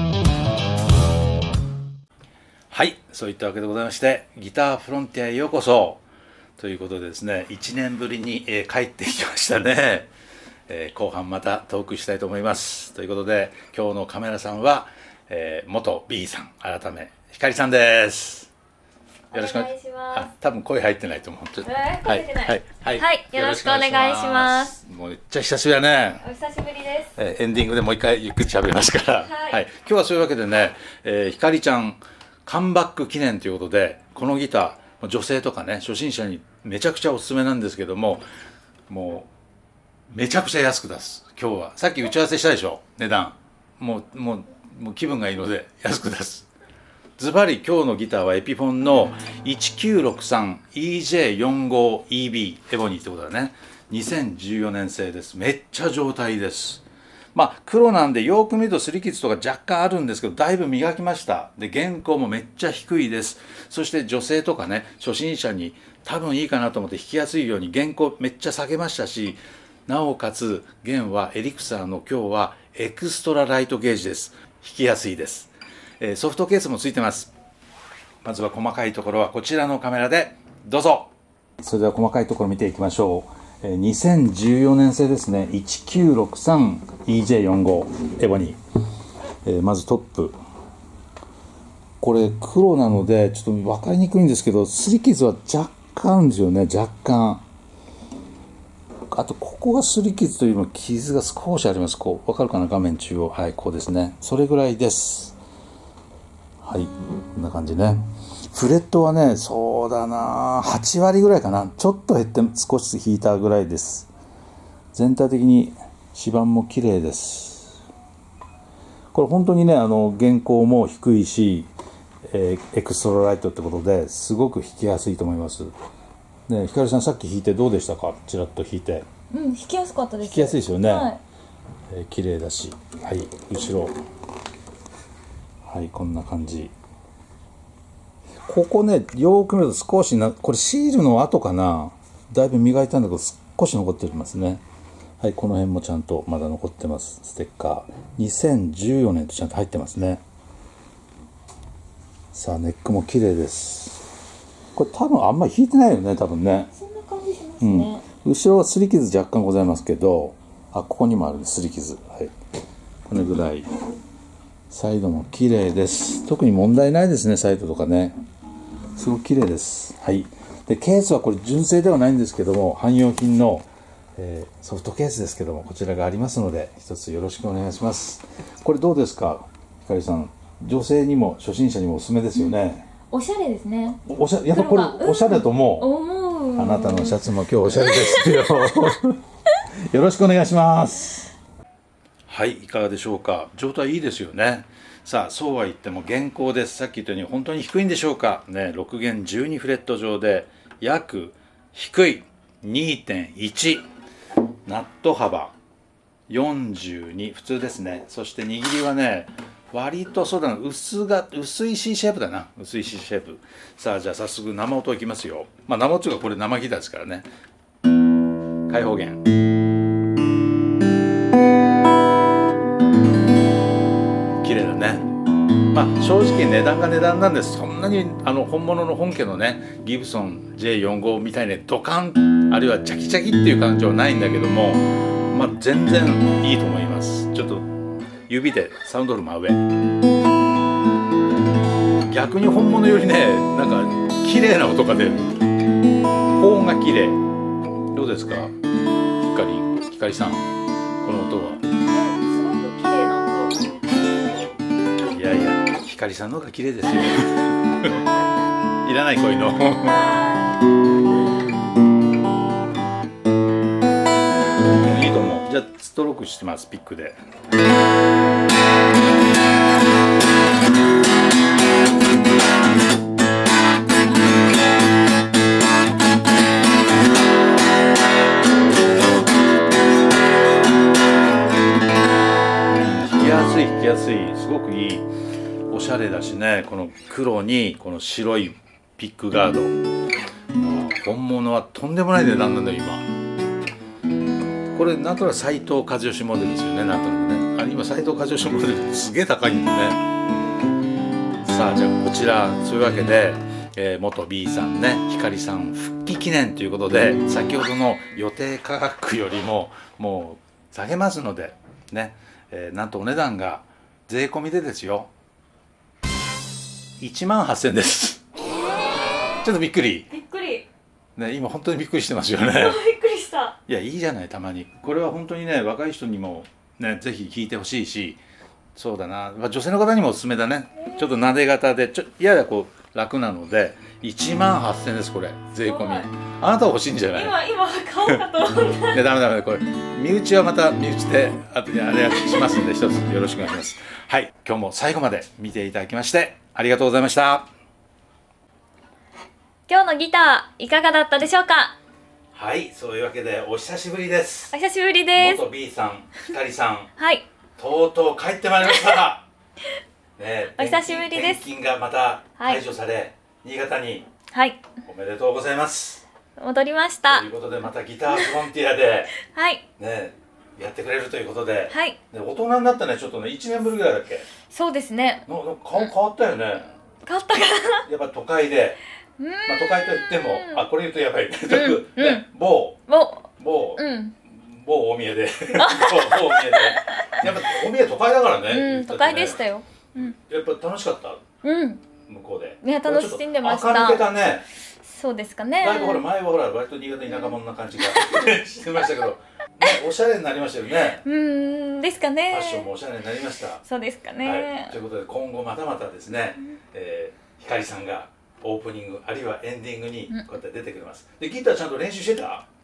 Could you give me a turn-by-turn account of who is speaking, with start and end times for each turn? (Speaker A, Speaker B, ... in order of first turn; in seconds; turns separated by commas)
Speaker A: 2.7-6.0, Speaker A: 6.6-10.1, Speaker A: 10.7-18.5, Speaker B: 19.3-20.3, Speaker A: 19.3-26.2, Speaker B: 21.6-24.7, Speaker B: 26.2-27.1, Speaker A: 27.1-38.2, Speaker B: 29.2-29.6, Speaker A: 38.9-39.3, Speaker A: 40.1-46.5, Speaker A: 47.2-77.3, Speaker A: 78.2-81.1, Speaker A: 81.6-88.6, Speaker A: 89.4-90.3, Speaker A: 92.0-97.4, Speaker A: 99.1-105.3, Speaker A: 106.6-114.1, Speaker A: 114.9-117.8, Speaker A: 119.1-121.7, Speaker A: 122.3-125.7, Speaker A: 126.5-129.1, Speaker B: 129.3-131.2, Speaker A: 130.2-131.1, Speaker A: 131.9-133.9, Speaker A: 135.7-136.7, Speaker A: 138.5-144.6, Speaker A: 145.2-150.2, Speaker A: 152.3-154.0, Speaker A: 154.7-156.7, Speaker B: 156.7-158.0, Speaker A: 157.6-162.3, Speaker A: 163.1-163.7, Speaker A: 164.7-168.2, Speaker A: 168.9-182.9, Speaker B: 183.1-184.0, Speaker A: 184.1-185.9, Speaker B: 184.5-188.9, Speaker A: 186.6-189.2, Speaker A: 189.9-191.3, Speaker A: 192.3-203.8, Speaker A: 204.7-205.5, Speaker A: 206.3-217.3, Speaker A: 218.7-219.2, Speaker A: 224.4-225.1, Speaker A: 225.7-237.7, Speaker A: 238.3-239.6, Speaker A: 242.1-245.3, Speaker A: 246.4-247.2, Speaker A: 247.9-248.5, Speaker A: 249.2-250.4, Speaker A: 251.0-251.6, Speaker B: 251.9-254.2, Speaker A: 255.0-257.9, Speaker A: 258.8-260.1, Speaker B: 259.8-260.6, Speaker A: 264.7-267.2, Speaker A: 283.0-285.1, Speaker A: 285.7-289.7, Speaker A: 290.5-293.1, Speaker A: 294.7-300.0, Speaker A: 301.4-315.1, Speaker A: 317.0-318.2, Speaker A: 319.4-320.1, Speaker B: 320.1-320.7, Speaker A: 321.1-322.8, Speaker B: 322.5-323.6, Speaker A: 323.7-328.2, Speaker A: 328.7-337.4, Speaker B: 335.6-336.1, Speaker B: 337.1-339.1, Speaker A: 338.9-347.5, Speaker B: 349.7-351.8, Speaker A: 352.3-354.6, Speaker B: 354.5-355.4, Speaker A: 355.1-356.9, Speaker B: 357.0-357.2, Speaker A: 357.6-359.2, Speaker A: 360.2-364.1, Speaker B: 360.6-361.4, Speaker B: 364.3-364.6, Speaker A: 364.8-366.0, Speaker B: 366.4-367.3, Speaker A: 367.1-369.1, Speaker B: 368.1-368.4, Speaker B: 369.2-369.6, Speaker A: 369.8-374.3, Speaker B: 371.7-372.0, Speaker B: 374.5-375.2, Speaker A: 375.2-376.7, Speaker B: 377.0-377.8, Speaker A: 377.8-378.8, Speaker B: 379.2-380.6, Speaker A: 379.5-382.8, Speaker B: 381.5-382.2, Speaker B: 382.9-384.1, Speaker A: 383.4-389.4, Speaker B: 385.6-387.5, Speaker B: 388.5-390.1, Speaker A: 390.0-391.2, Speaker B: 391.4-391.8, Speaker A: 392.1-394.4, Speaker B: 392.6-394.1, Speaker B: 394.8-396.0, Speaker A: 395.6-401.0, Speaker B: 401.0-402.7, Speaker A: 402.3-403.6, Speaker B: 403.6-404.7, Speaker A: 404.2-412.4